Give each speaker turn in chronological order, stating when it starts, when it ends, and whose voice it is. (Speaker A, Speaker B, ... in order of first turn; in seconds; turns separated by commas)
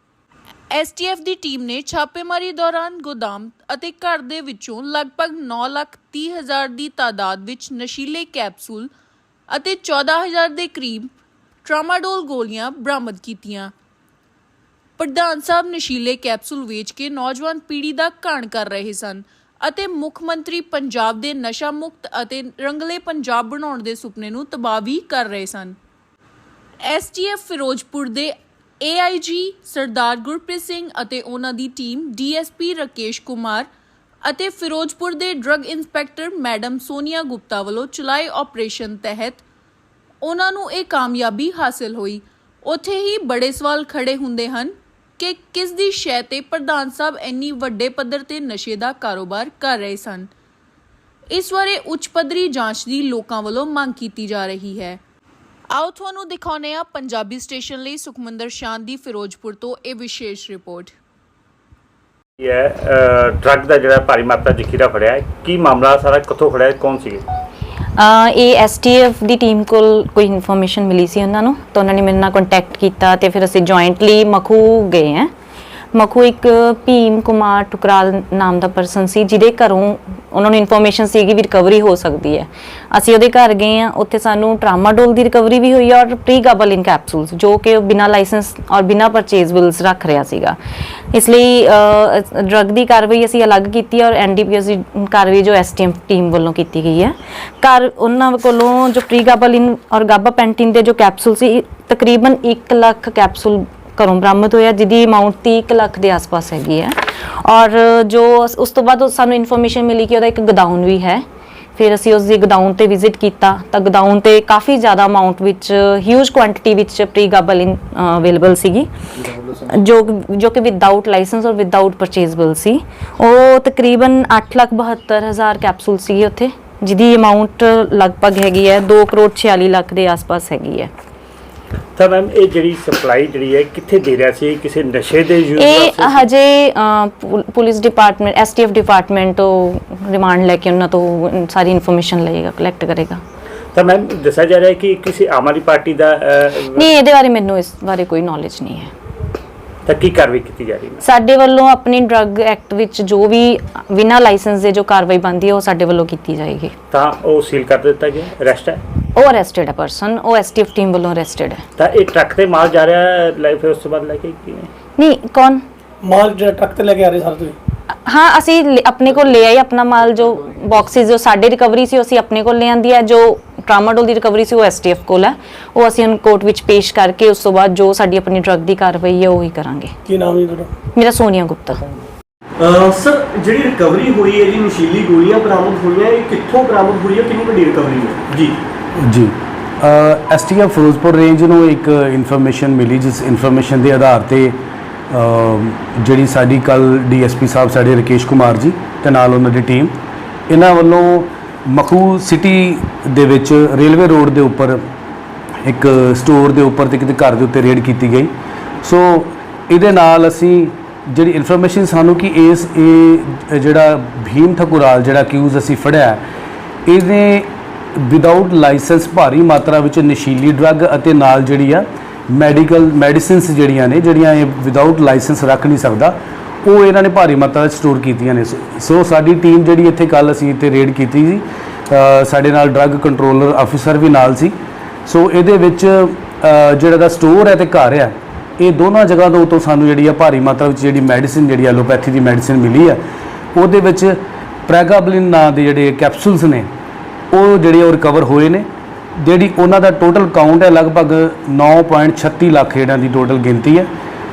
Speaker A: 0.7-8.9, Speaker A: 9.5-11.1, Speaker A: 11.6-13.7, Speaker A: 15.0-25.8, Speaker A: 26.8-33.7, Speaker A: 34.2-39.4, Speaker A: 40.2-50.3, Speaker A: 51.3-55.0, Speaker A: 55.7-60.9, Speaker B: 62.4-67.2, Speaker C: 68.0-75.3, Speaker C: 75.9-90.6, Speaker C: 91.1-111.2, Speaker C: 111.8-118.9, Speaker C: 119.5-130.9, Speaker B: 131.9-136.3, Speaker C: 135.6-143.2, Speaker B: 143.7-146.8, Speaker C: 146.7-148.9, Speaker B: 149.8-151.0, Speaker C: 151.0-156.7, Speaker B: 156.9-158.8, Speaker C: 159.1-161.6, Speaker B: 161.8-164.7, Speaker C: 165.0-165.6, Speaker D: 166.0-167.6, Speaker C: 168.0-179.9, Speaker D: 180.1-180.7, Speaker C: 180.9-181.8, Speaker E: 182.6-188.6, Speaker F: 189.0-194.6, Speaker F: 195.1-199.9, Speaker F: 200.5-204.8, Speaker F: 205.6-208.3, Speaker F: 208.8-216.2, Speaker F: 216.8-243.0, Speaker F: 243.5-246.7, Speaker F: 247.3-253.9